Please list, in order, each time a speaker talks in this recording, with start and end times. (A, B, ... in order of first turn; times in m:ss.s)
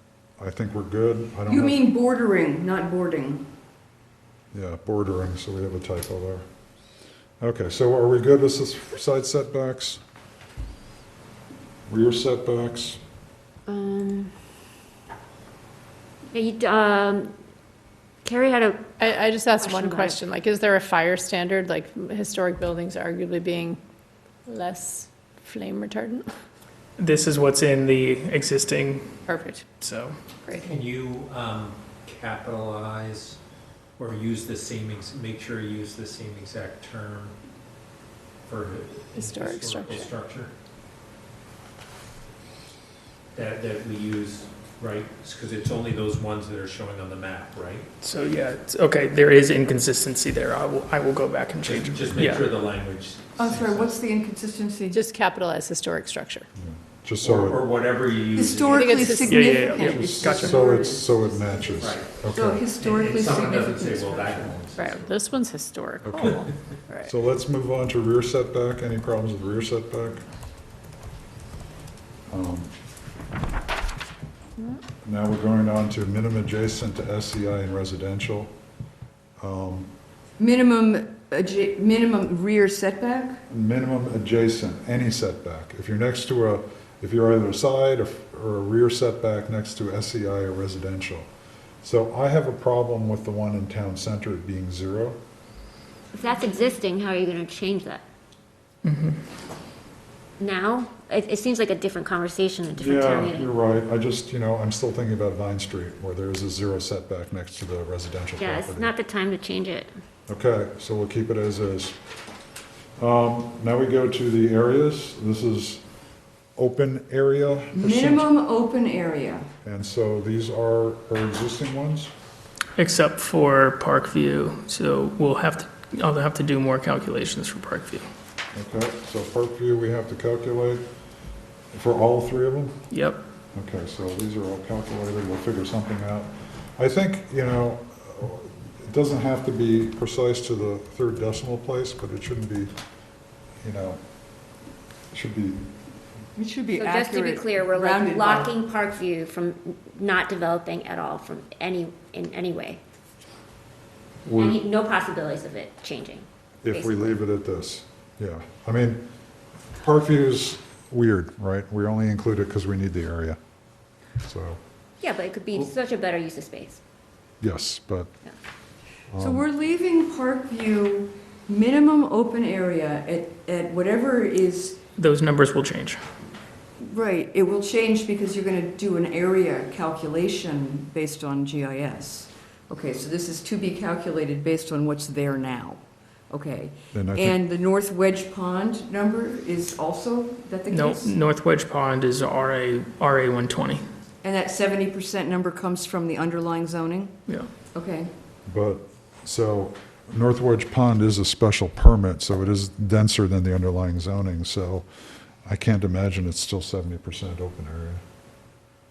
0:00.4-0:01.8 A
0:01.5-0:03.5 B
0:04.5-0:06.4 A
0:07.4-0:10.0 A
0:11.9-0:13.0 A
0:13.7-0:14.3 C
0:16.3-0:17.3 C
0:18.2-0:18.9 C
0:19.0-0:23.8 D
0:19.6-0:20.2 C
0:24.5-0:26.3 D
0:27.0-0:29.2 E
0:29.3-0:29.7 D
0:29.8-0:30.2 E
0:30.4-0:30.8 D
0:30.5-0:33.4 F
0:34.0-0:37.4 F
0:38.5-0:40.5 F
0:39.2-0:40.1 D
0:43.3-0:47.9 F
0:48.0-0:52.5 E
0:51.6-0:54.0 F
0:53.4-0:55.0 B
0:54.9-0:56.5 D
0:56.6-0:57.6 A
0:57.2-0:59.2 F
0:58.3-1:01.7 B
0:58.7-0:59.7 D
0:59.2-1:00.6 E
0:59.8-1:02.7 A
1:01.8-1:02.1 F
1:02.3-1:04.6 B
1:02.8-1:05.2 F
1:04.8-1:06.5 D
1:06.0-1:06.5 A
1:07.0-1:10.2 A
1:12.3-1:12.7 A
1:15.0-1:18.5 A
1:19.4-1:19.9 A
1:20.4-1:23.4 B
1:23.5-1:31.3 A
1:31.8-1:35.2 A
1:36.1-1:38.0 C
1:38.8-1:39.2 E
1:40.4-1:43.5 C
1:42.8-1:48.9 A
1:48.4-1:49.9 C
1:50.3-1:52.0 A
1:53.0-1:55.8 A
1:56.6-1:58.3 A
1:57.8-1:59.5 B
1:59.6-2:02.1 A
2:02.8-2:08.1 E
2:08.5-2:10.8 A
2:11.7-2:12.8 A
2:12.9-2:13.2 E
2:13.6-2:22.7 A
2:23.6-2:24.0 A
2:25.1-2:25.7 A
2:26.4-2:28.5 B
2:26.8-2:32.8 C
2:34.2-2:34.6 A
2:34.4-2:37.2 C
2:36.6-2:39.0 A
2:39.8-2:43.4 A
2:44.2-2:44.6 A
2:45.0-2:46.8 C
2:47.4-2:48.1 A
2:49.1-2:49.5 A
2:49.2-2:54.8 B
2:55.0-2:56.0 E
2:56.8-3:11.1 B
3:06.9-3:07.4 A
3:10.7-3:13.8 E
3:14.2-3:17.1 B
3:17.8-3:18.1 B
3:18.5-3:24.9 A
3:25.4-3:28.0 A